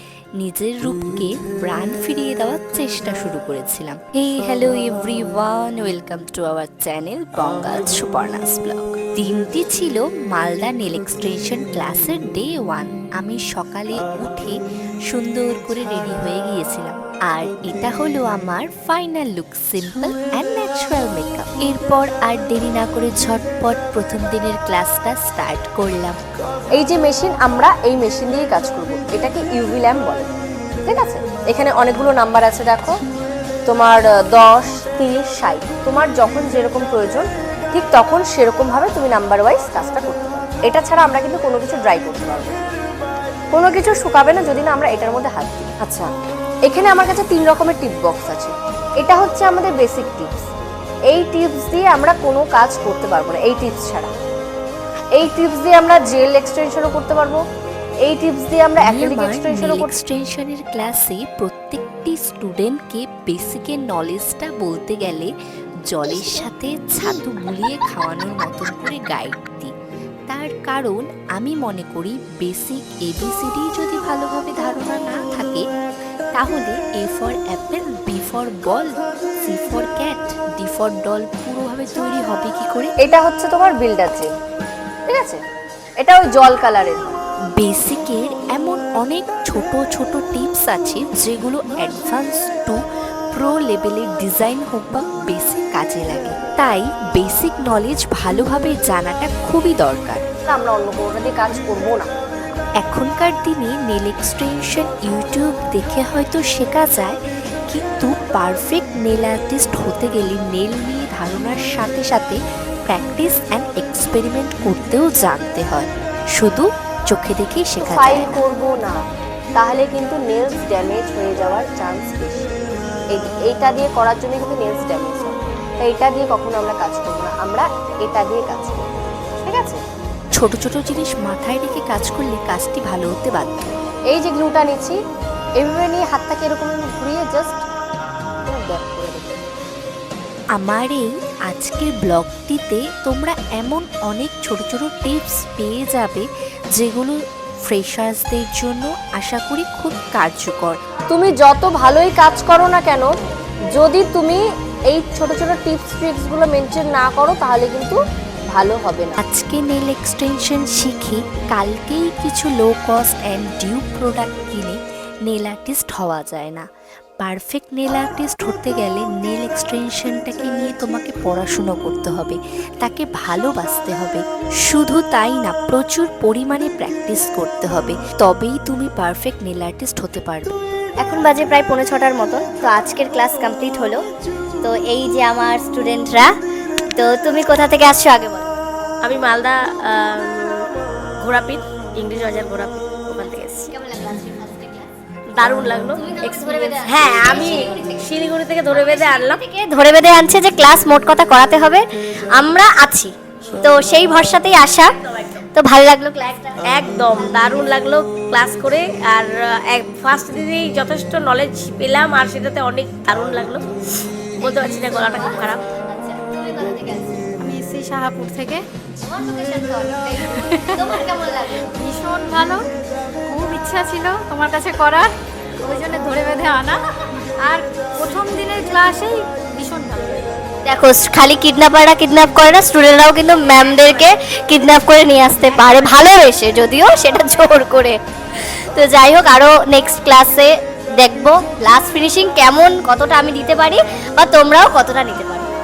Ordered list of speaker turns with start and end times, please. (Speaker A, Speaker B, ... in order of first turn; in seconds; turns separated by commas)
Speaker A: 0.4-14.6, Speaker A: 15.1-26.2, Speaker B: 26.8-30.3, Speaker B: 30.9-33.0, Speaker B: 33.7-42.6, Speaker B: 43.5-46.1, Speaker B: 46.7-50.5, Speaker B: 51.1-54.1, Speaker B: 55.2-57.4, Speaker B: 58.0-59.9, Speaker A: 58.8-65.3, Speaker A: 65.9-69.7, Speaker A: 70.3-75.6, Speaker A: 76.3-82.9, Speaker B: 83.0-84.3, Speaker B: 85.1-85.4, Speaker B: 86.0-87.0, Speaker A: 87.6-92.8, Speaker A: 93.3-100.2, Speaker B: 100.5-102.1, Speaker A: 102.8-107.2, Speaker A: 107.7-118.4, Speaker B: 117.8-119.0, Speaker B: 119.6-122.5, Speaker B: 123.1-128.8, Speaker B: 129.5-129.8, Speaker A: 130.4-133.7, Speaker B: 134.1-135.0, Speaker B: 135.6-137.6, Speaker B: 138.5-139.4, Speaker A: 140.6-150.8, Speaker B: 151.1-153.1, Speaker B: 153.8-154.4, Speaker B: 154.9-158.0, Speaker B: 158.5-159.2, Speaker A: 159.2-166.7, Speaker A: 167.2-180.5, Speaker C: 181.0-184.0, Speaker C: 184.6-186.3, Speaker C: 187.0-188.5, Speaker D: 189.0-190.7, Speaker D: 191.2-193.7, Speaker C: 193.3-194.9, Speaker D: 195.4-199.4, Speaker C: 195.9-198.1, Speaker C: 198.7-201.8, Speaker C: 202.4-207.7, Speaker D: 206.6-213.6, Speaker D: 214.4-215.6, Speaker C: 215.0-217.2, Speaker E: 217.4-218.7, Speaker C: 219.0-221.7, Speaker E: 220.2-221.2, Speaker E: 221.8-222.6, Speaker E: 223.3-230.3, Speaker C: 230.7-245.5